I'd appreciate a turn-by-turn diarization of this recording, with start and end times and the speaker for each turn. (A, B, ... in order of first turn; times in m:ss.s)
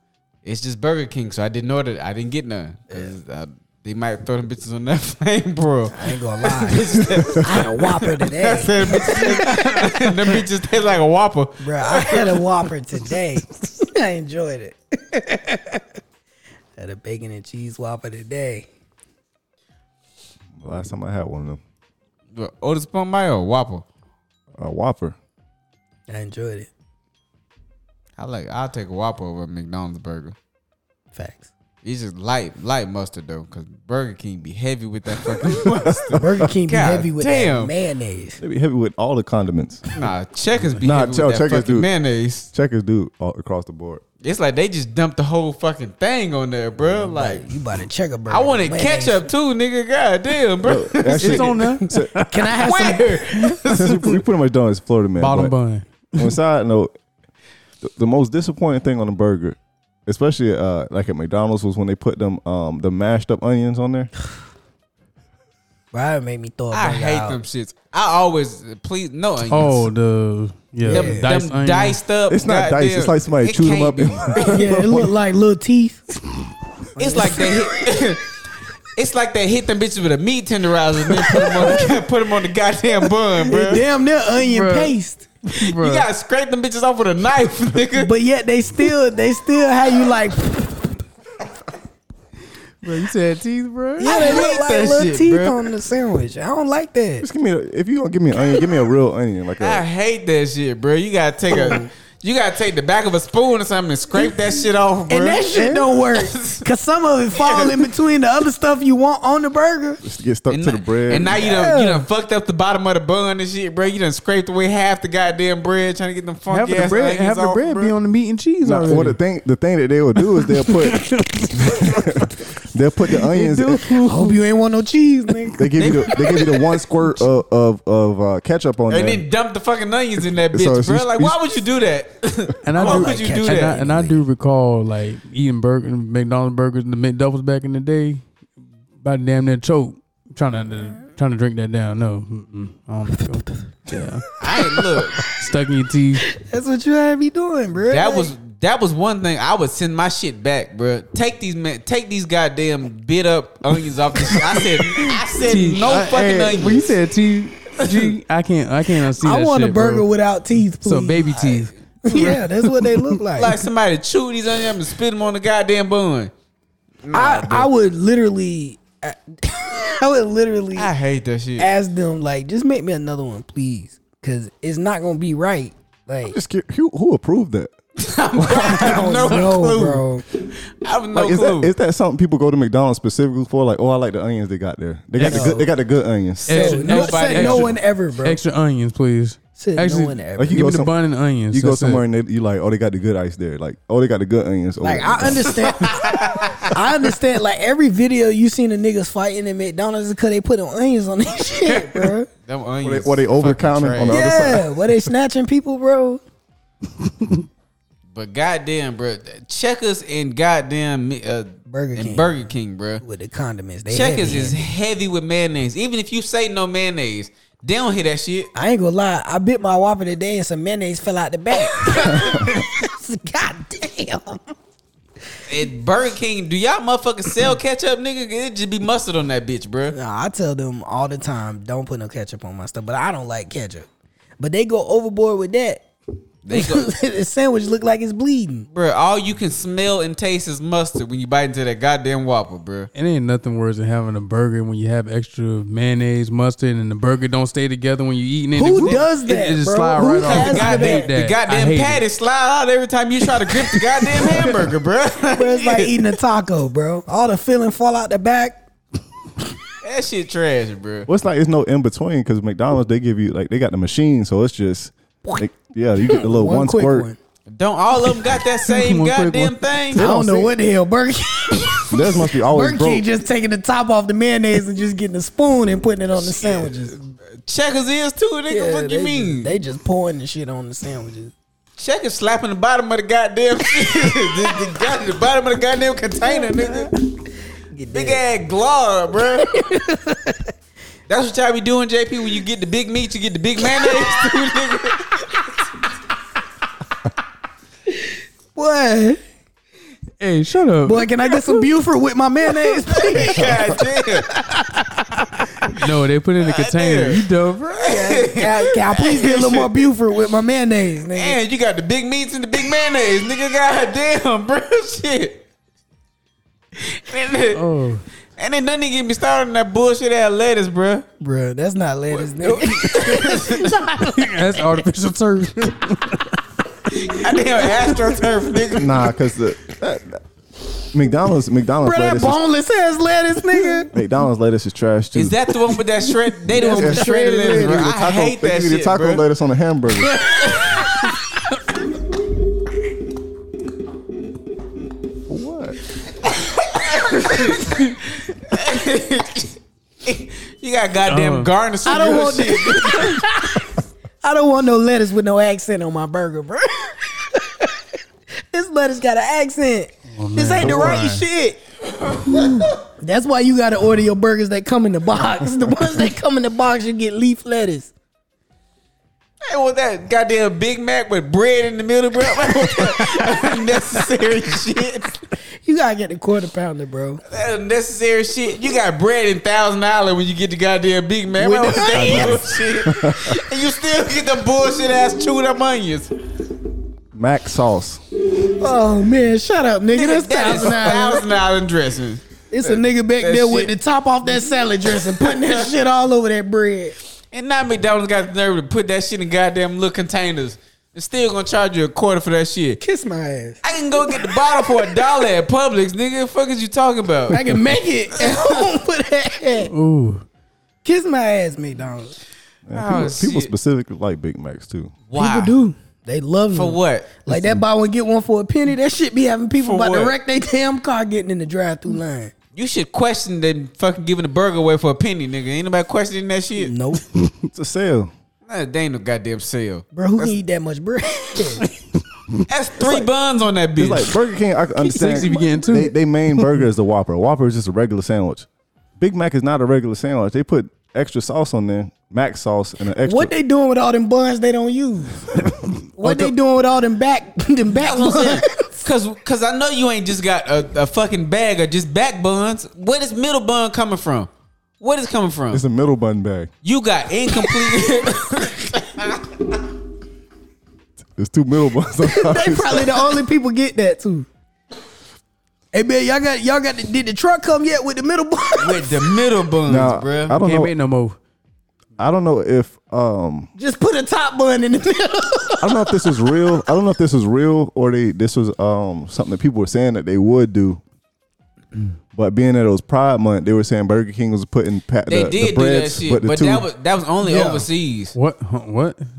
0:00.4-0:12.4 A
0:02.9-0:03.1 B
0:05.9-0:09.9 B
0:11.6-0:15.8 B
0:16.8-0:18.7 B
0:20.6-0:21.6 C
0:22.3-0:23.8 A
0:24.6-0:25.2 C
0:26.1-0:26.7 B
0:28.2-0:30.3 A
0:31.1-0:31.5 B
0:31.8-0:37.7 A
0:35.6-0:36.2 C
0:36.1-0:38.4 B
0:38.4-0:39.9 C
0:39.9-0:42.5 A
0:40.8-0:41.9 C
0:42.5-0:44.0 C
0:44.2-0:47.4 A
0:46.8-0:49.2 B
0:48.3-0:51.5 A
0:50.6-0:52.1 C
0:51.1-0:52.6 D
0:52.2-0:53.6 B
0:52.6-0:54.1 A
0:53.7-0:55.5 C
0:55.2-0:56.3 D
0:56.1-0:56.9 C
0:57.8-1:04.1 C
1:05.9-1:07.4 B
1:06.7-1:09.9 A
1:09.5-1:12.0 D
1:10.8-1:11.2 B
1:10.9-1:14.6 A
1:12.3-1:15.1 C
1:14.4-1:16.0 B
1:17.0-1:17.9 B
1:17.0-1:18.3 A
1:18.9-1:23.8 A
1:21.2-1:22.0 B
1:23.4-1:25.3 B
1:24.3-1:26.0 D
1:25.6-1:28.1 A
1:27.9-1:31.0 B
1:32.8-1:34.2 D
1:34.0-1:37.3 B
1:34.0-1:35.6 A
1:37.2-1:39.8 C
1:39.6-1:46.6 A
1:41.5-1:41.9 B
1:45.1-1:50.0 B
1:47.4-1:47.9 A
1:50.0-1:51.4 C
1:50.5-1:57.9 A
1:51.3-1:52.0 B
1:56.5-1:59.2 D
1:58.6-2:04.0 C
2:00.4-2:02.4 D
2:03.1-2:04.4 D
2:04.0-2:05.7 B
2:05.6-2:09.2 C
2:05.8-2:06.5 A
2:08.9-2:13.8 A
2:10.5-2:11.4 C
2:12.6-2:18.2 D
2:12.8-2:14.2 B
2:19.0-2:24.3 D
2:24.4-2:25.3 A
2:25.2-2:26.2 D
2:26.3-2:28.3 B
2:27.9-2:36.9 A
2:35.4-2:40.0 D
2:37.8-2:38.1 A
2:39.2-2:41.4 B
2:40.8-2:43.2 D
2:41.3-2:41.7 A
2:42.0-2:43.6 B
2:43.3-2:46.3 A
2:47.0-2:47.7 A
2:47.1-2:50.9 B
2:50.7-2:51.7 A
2:51.6-2:56.4 B
2:56.3-2:57.7 C
2:58.0-3:01.7 A
2:58.4-2:58.8 C
2:58.6-3:00.2 B
3:01.1-3:06.7 C
3:05.2-3:05.5 D
3:05.2-3:05.7 B
3:06.5-3:08.4 B
3:06.5-3:12.0 D
3:06.5-3:07.7 A
3:09.6-3:10.7 B
3:10.4-3:10.9 C
3:11.5-3:15.6 C
3:14.8-3:22.3 B
3:15.8-3:16.7 A
3:22.0-3:24.2 A
3:22.8-3:24.9 C
3:24.1-3:26.2 B
3:28.1-3:33.0 A
3:31.7-3:32.4 B
3:33.0-3:34.6 B
3:33.9-3:38.5 A
3:38.5-3:44.4 B
3:45.5-3:49.9 A
3:49.9-3:53.8 B
3:54.4-3:55.8 B
3:56.4-3:56.9 A
3:56.5-3:58.7 B
3:58.7-4:02.9 A
4:02.9-4:12.0 D
4:08.5-4:11.1 B
4:10.0-4:16.1 A
4:15.3-4:18.6 B
4:19.8-4:21.1 A
4:21.1-4:27.1 C
4:26.1-4:27.2 B
4:27.5-4:30.0 A
4:28.6-4:30.5 D
4:29.9-4:37.0 B
4:30.0-4:30.4 C
4:31.9-4:33.0 C
4:36.2-4:39.5 A
4:38.5-4:41.3 B
4:41.8-4:46.9 A
4:44.0-4:44.3 B
4:46.2-4:46.9 B
4:47.7-4:48.2 B
4:47.9-4:49.5 A
4:49.4-4:50.5 B
4:51.1-4:55.4 A
4:53.8-4:54.3 B
4:58.5-4:59.2 B
5:00.2-5:01.6 D
5:00.8-5:03.7 B
5:02.9-5:04.3 A
5:04.4-5:05.2 B
5:05.6-5:07.9 D
5:06.4-5:07.2 A
5:07.8-5:11.4 B
5:08.0-5:09.8 A
5:11.1-5:15.4 A
5:16.8-5:17.6 A
5:17.5-5:18.0 D
5:18.4-5:21.0 A
5:21.2-5:24.3 B
5:22.2-5:23.7 A
5:24.0-5:26.3 D
5:26.9-5:29.0 A
5:28.8-5:30.2 C
5:30.8-5:32.4 C
5:31.8-5:33.9 B
5:33.9-5:35.4 C
5:35.1-5:39.2 A
5:36.5-5:37.9 B
5:36.6-5:40.2 C
5:40.1-5:41.2 A
5:45.3-5:45.8 C
5:46.2-5:53.2 A
5:51.1-5:51.5 D
5:51.8-5:57.8 B
5:58.5-6:01.6 B
6:00.1-6:01.1 D
6:00.6-6:01.2 C
6:02.2-6:07.9 B
6:09.4-6:15.2 A
6:15.6-6:17.2 B
6:17.3-6:26.1 A
6:21.4-6:22.6 B
6:21.9-6:23.3 C
6:27.1-6:28.0 C
6:28.5-6:31.2 B
6:29.9-6:32.7 A
6:32.5-6:36.9 B
6:33.2-6:33.7 A
6:35.0-6:35.6 A
6:37.3-6:42.8 A
6:42.8-6:45.2 B
6:43.6-6:47.6 A
6:47.3-6:49.7 B
6:49.7-6:50.2 D
6:50.8-6:52.2 B
6:52.7-6:54.9 C
6:52.7-6:53.5 A
6:55.1-6:55.6 A
6:55.1-7:02.3 B
6:56.5-6:57.2 A
6:59.6-7:00.1 A
7:02.6-7:06.7 A
7:06.6-7:07.0 B
7:07.5-7:08.1 C
7:08.5-7:10.3 A
7:09.9-7:11.6 B
7:12.5-7:14.1 A
7:12.8-7:13.1 B
7:13.8-7:18.5 C
7:14.8-7:15.8 B
7:14.9-7:16.4 D
7:19.0-7:23.3 C
7:23.0-7:25.4 B
7:26.0-7:28.8 B
7:26.0-7:26.3 C
7:27.8-7:34.3 A
7:34.8-7:35.6 A
7:35.5-7:36.5 C
7:36.6-7:39.3 A
7:41.2-7:43.1 C
7:42.0-7:44.3 B
7:45.7-7:49.1 B
7:48.6-7:50.4 A
7:49.6-7:50.7 C
7:50.4-7:51.2 D
7:52.0-7:53.5 C
7:53.6-7:56.3 B
7:55.6-8:00.8 C
8:02.1-8:06.7 C
8:05.1-8:08.1 A
8:07.2-8:07.6 B
8:08.1-8:09.0 D